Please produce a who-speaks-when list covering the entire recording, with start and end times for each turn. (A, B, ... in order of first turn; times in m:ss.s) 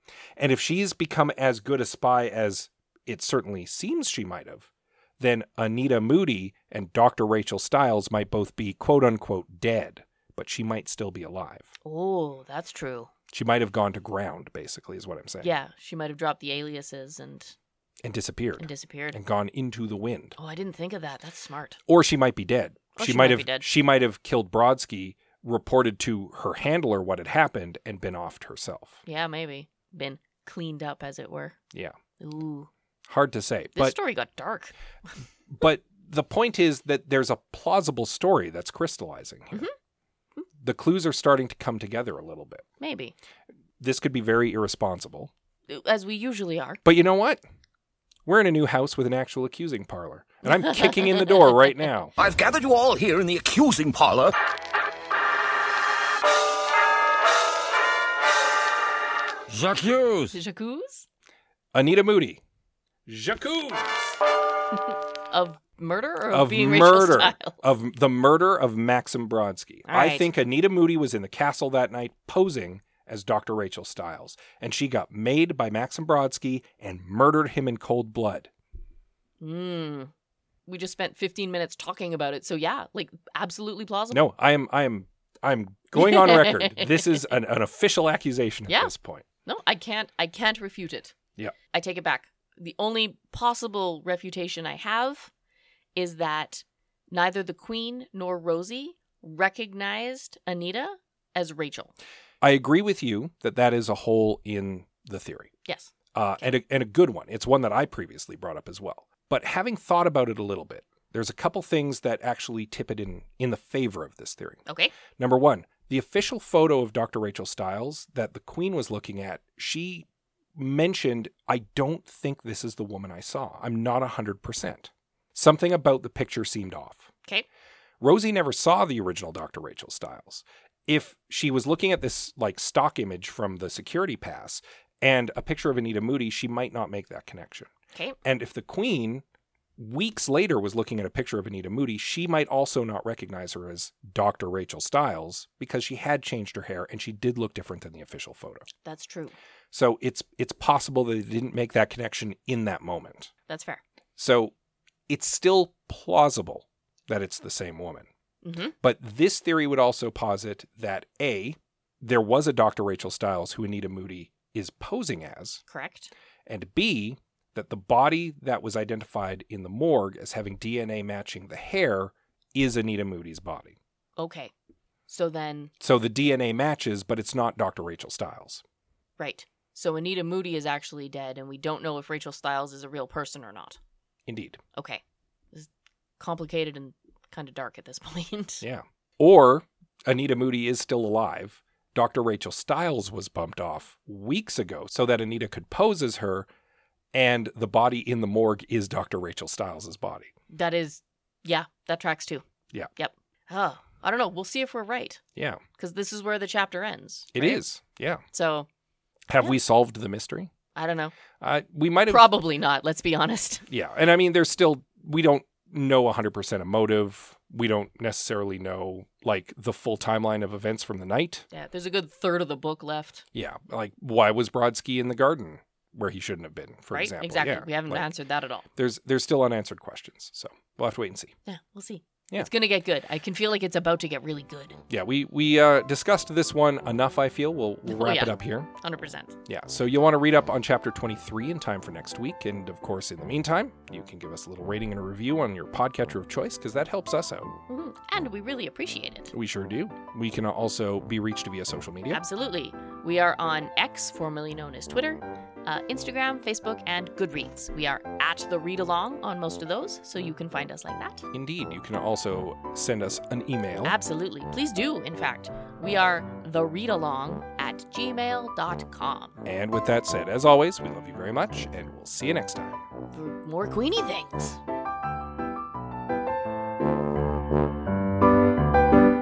0:00.4-0:11.7 A
0:11.8-0:13.1 B
0:13.3-0:15.5 A
0:15.4-0:17.5 B
0:18.0-0:20.4 A
0:18.6-0:19.2 B
0:20.4-0:21.8 B
0:21.9-0:29.0 A
0:23.0-0:23.7 B
0:29.0-0:31.6 B
0:32.2-0:32.7 B
0:33.1-0:34.0 A
0:33.8-0:34.7 B
0:35.5-0:39.7 A
0:40.6-0:42.6 A
0:42.8-0:43.1 B
0:43.8-0:45.3 A
0:45.7-0:46.8 B
0:46.8-0:47.4 A
0:48.2-0:52.1 A
0:50.4-0:51.8 B
0:52.2-0:54.3 C
0:59.5-1:00.3 C
1:00.3-1:01.1 B
1:01.7-1:02.4 A
1:03.1-1:04.2 A
1:04.9-1:07.5 B
1:06.3-1:18.5 A
1:09.9-1:10.3 B
1:19.4-1:20.1 B
1:20.6-1:24.2 B
1:24.1-1:29.2 A
1:25.9-1:27.3 B
1:29.4-1:31.1 B
1:31.7-1:35.3 B
1:36.0-1:41.9 B
1:42.4-1:45.5 A
1:45.6-1:46.5 B
1:46.1-1:54.6 A
1:54.7-1:54.9 B
1:55.2-2:07.1 A
2:08.0-2:17.7 A
2:18.2-2:19.2 A
2:19.8-2:28.7 A
2:28.8-2:29.3 B
2:29.7-2:33.3 A
2:33.5-2:33.8 B
2:34.2-2:34.5 A
2:35.1-2:38.1 A
2:38.4-2:38.7 B
2:38.8-2:45.6 A
2:45.7-2:46.1 B
2:46.4-2:53.8 A
2:54.2-2:54.5 B
2:55.1-2:55.7 B
2:55.8-2:58.6 A
2:59.2-3:03.8 B
3:04.3-3:04.6 A
3:04.8-3:08.6 B
3:08.6-3:16.5 A
3:17.1-3:20.3 A
3:20.5-3:25.2 B
3:25.4-3:25.6 A
3:25.8-3:27.6 B
3:27.3-3:28.2 A
3:28.3-3:28.7 B
3:29.3-3:30.5 A
3:30.7-3:31.1 B
3:31.4-3:32.3 A
3:32.1-3:33.7 B
3:33.7-3:41.5 A
3:41.5-3:43.2 B
3:43.3-3:48.1 A
3:46.9-3:48.6 B
3:48.8-3:51.3 A
3:51.4-3:54.8 B
3:54.9-3:58.7 A
3:57.9-3:59.3 B
3:59.5-4:07.5 A
4:07.7-4:09.3 B
4:09.3-4:12.2 A
4:12.1-4:21.2 B
4:21.3-4:23.9 A
4:23.8-4:29.4 B
4:29.4-4:32.8 A
4:33.1-4:34.6 B